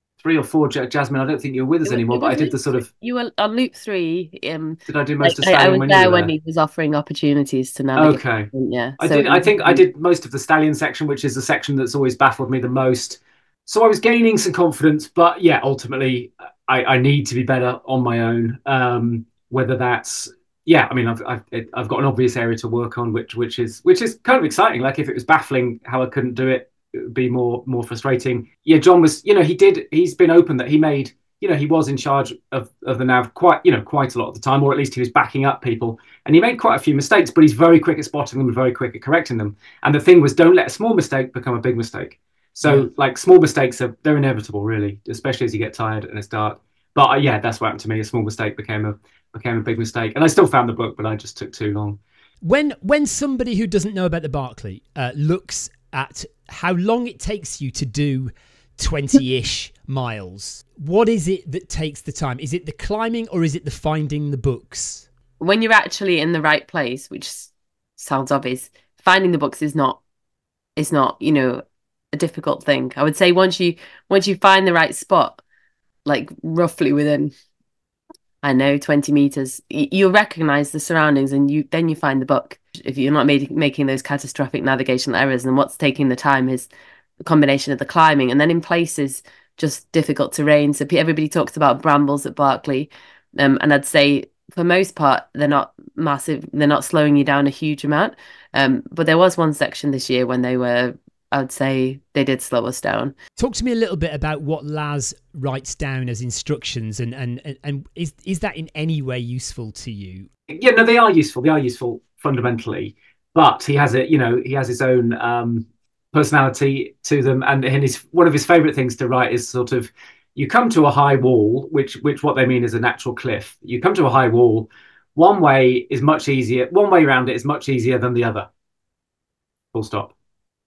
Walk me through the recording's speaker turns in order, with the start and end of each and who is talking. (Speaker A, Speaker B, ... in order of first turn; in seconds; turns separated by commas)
Speaker A: 0.2-2.9, Speaker B: 1.8-9.8, Speaker A: 4.9-6.3, Speaker A: 8.0-8.5, Speaker A: 9.0-52.0, Speaker C: 42.6-42.9, Speaker C: 52.4-65.0, Speaker B: 65.4-70.0, Speaker B: 70.8-71.6, Speaker B: 72.1-75.4, Speaker B: 76.0-77.3, Speaker B: 78.4-86.7, Speaker B: 87.2-103.1, Speaker C: 103.4-110.3, Speaker A: 110.5-128.4, Speaker A: 129.7-130.1